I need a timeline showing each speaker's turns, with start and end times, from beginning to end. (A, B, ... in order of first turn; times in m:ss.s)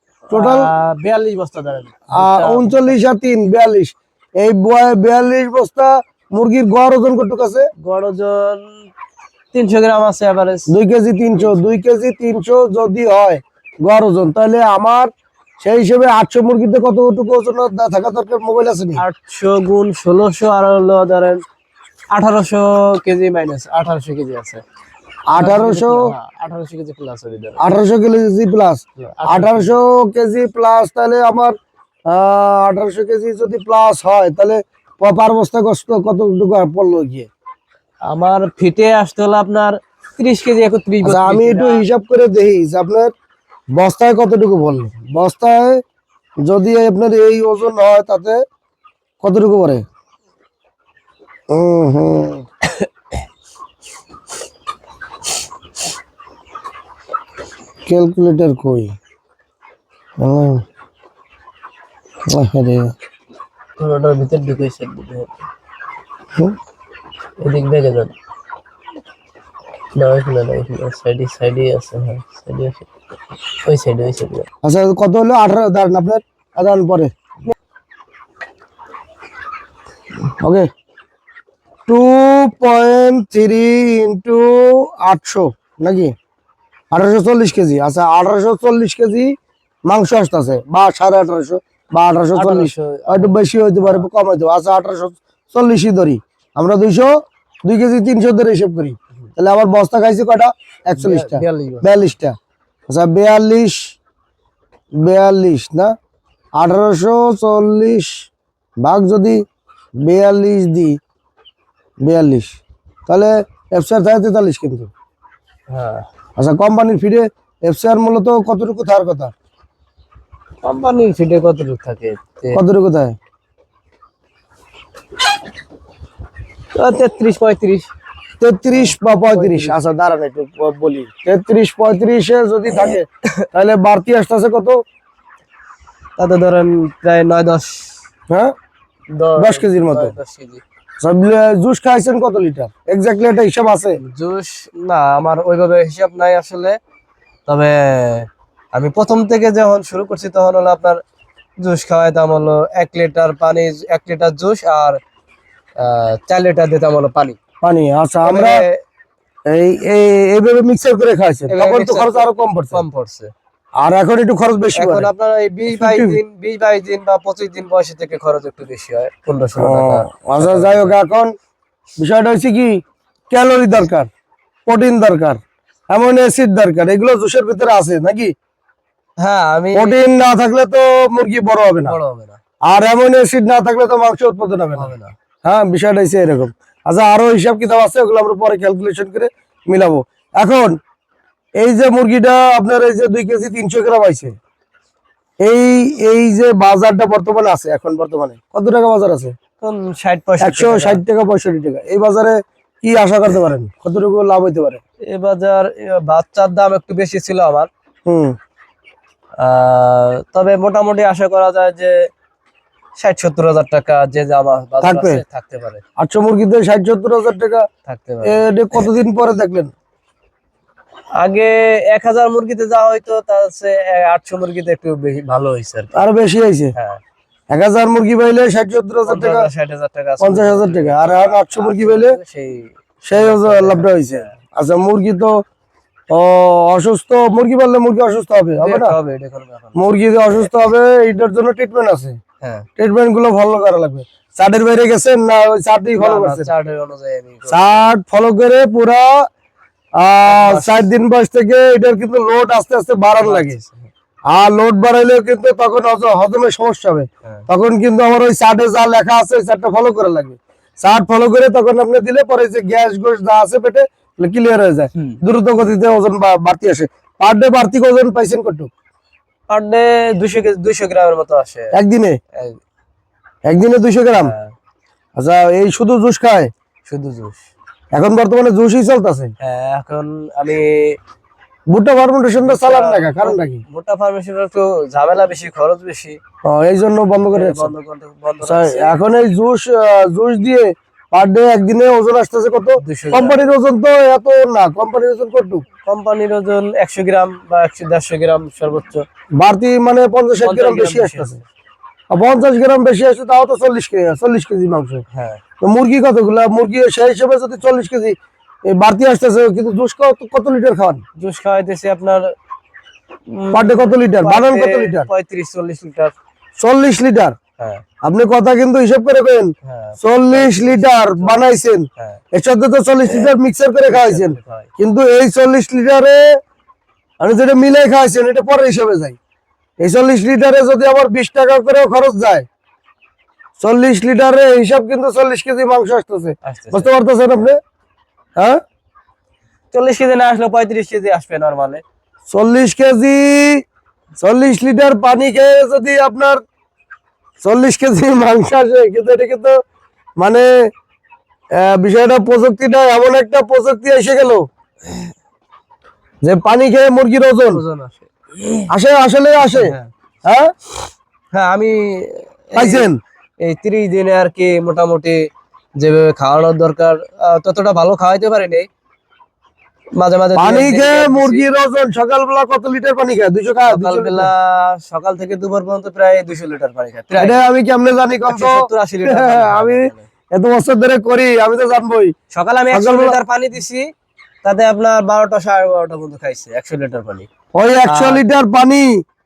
0:00.3-0:03.0 A
0:00.3-0:00.7 B
0:02.1-0:07.7 B
0:07.8-0:08.9 A
0:09.5-0:10.7 A
0:10.7-0:19.0 B
0:11.4-0:11.7 A
0:19.0-0:21.4 A
0:22.1-0:24.6 A
0:25.3-0:26.1 B
0:25.4-0:27.6 A
0:27.6-0:31.5 B
0:29.0-0:29.7 A
0:32.1-0:37.3 B
0:38.0-0:41.8 A
0:41.0-0:43.1 B
0:43.7-0:45.8 B
0:46.4-0:48.4 B
0:49.2-0:49.8 B
0:51.5-0:52.4 B
0:57.8-0:58.9 B
1:00.2-1:00.6 B
1:02.3-1:02.9 B
1:03.8-1:05.3 A
1:07.4-1:08.1 A
1:10.0-1:12.9 A
1:13.6-1:14.5 A
1:14.6-1:17.1 B
1:20.4-1:20.7 B
1:21.9-1:26.1 B
1:26.9-1:29.3 B
1:29.8-1:37.1 B
1:32.3-1:34.1 A
1:37.6-1:42.4 B
1:41.0-1:42.0 A
1:42.9-1:43.8 B
1:45.0-1:45.9 B
1:46.6-1:48.1 B
1:48.8-1:49.4 B
1:50.0-1:50.9 B
1:52.0-1:54.9 B
1:55.7-1:56.0 A
1:56.4-1:59.3 B
2:00.6-2:02.6 A
2:02.5-2:03.2 B
2:06.7-2:07.9 A
2:08.4-2:14.8 B
2:08.7-2:09.8 A
2:16.2-2:18.0 A
2:19.1-2:20.6 A
2:19.4-2:20.1 B
2:21.0-2:24.0 B
2:24.0-2:26.8 A
2:27.5-2:31.0 A
2:31.6-2:35.0 A
2:35.8-2:37.4 A
2:37.6-2:38.6 B
2:38.2-2:38.8 A
2:39.5-2:42.8 B
2:41.5-2:43.3 A
2:43.8-2:45.1 B
2:44.7-2:51.0 A
2:45.7-2:46.2 B
2:49.6-2:51.3 B
2:52.0-2:54.1 B
2:54.6-2:58.3 B
2:59.2-3:00.0 A
2:59.7-3:02.0 B
3:01.8-3:02.4 A
3:02.6-3:10.8 B
3:04.8-3:05.1 A
3:11.6-3:14.4 B
3:15.4-3:19.3 B
3:19.6-3:21.0 A
3:20.4-3:24.8 B
3:25.0-3:27.7 A
3:28.1-3:28.4 B
3:29.4-3:32.1 A
3:33.0-3:35.8 A
3:34.8-3:35.2 B
3:36.0-3:37.7 B
3:37.9-3:38.8 A
3:38.2-3:39.7 B
3:41.2-3:46.0 A
3:45.9-3:46.7 B
3:47.5-3:49.5 B
3:49.0-3:54.3 A
3:50.2-3:52.2 B
3:53.0-3:55.4 B
3:56.1-3:58.9 B
3:58.6-4:00.5 A
3:59.7-4:02.2 B
4:02.4-4:02.6 A
4:02.8-4:06.5 B
4:06.0-4:07.8 A
4:07.5-4:09.2 B
4:10.0-4:13.6 B
4:10.2-4:10.9 A
4:13.2-4:13.9 A
4:14.3-4:28.7 B
4:29.5-4:31.7 A
4:31.7-4:32.2 B
4:33.4-4:34.3 B
4:34.2-4:34.5 A
4:35.2-4:36.5 B
4:36.9-4:37.4 A
4:37.9-4:39.3 B
4:39.4-4:41.0 A
4:41.7-4:43.6 B
4:42.4-4:46.2 A
4:46.4-4:47.7 B
4:47.3-4:48.9 A
4:48.4-4:55.6 B
4:52.8-4:53.4 A
4:55.8-4:59.0 A
4:59.4-5:01.4 B
5:00.4-5:01.4 A
5:02.1-5:05.0 B
5:05.1-5:05.4 A
5:05.6-5:08.2 B
5:08.7-5:11.0 B
5:11.2-5:12.3 A
5:13.3-5:16.1 A
5:13.5-5:15.1 B
5:16.6-5:17.4 B
5:18.0-5:26.2 B
5:19.6-5:21.4 A
5:23.0-5:23.3 A
5:23.9-5:24.7 A
5:27.2-5:29.2 B
5:29.8-5:32.5 B
5:33.6-5:37.6 B
5:36.4-5:36.9 A
5:39.7-5:41.8 A
5:42.3-5:43.6 B
5:44.2-5:46.4 B
5:47.4-5:49.6 B
5:50.2-5:50.5 B
5:51.6-5:54.4 B
5:56.2-5:57.6 B
5:57.5-5:58.7 A
5:58.7-5:59.7 B
5:59.4-5:59.9 A
6:00.2-6:00.5 B
6:01.3-6:05.2 A
6:02.6-6:03.0 B
6:05.8-6:08.7 A
6:09.9-6:11.5 A
6:10.4-6:14.3 B
6:13.7-6:17.4 A
6:17.2-6:22.1 B
6:18.3-6:20.1 A
6:22.3-6:23.9 A
6:22.7-6:23.2 B
6:24.4-6:27.3 A
6:27.5-6:29.0 B
6:27.8-6:28.2 A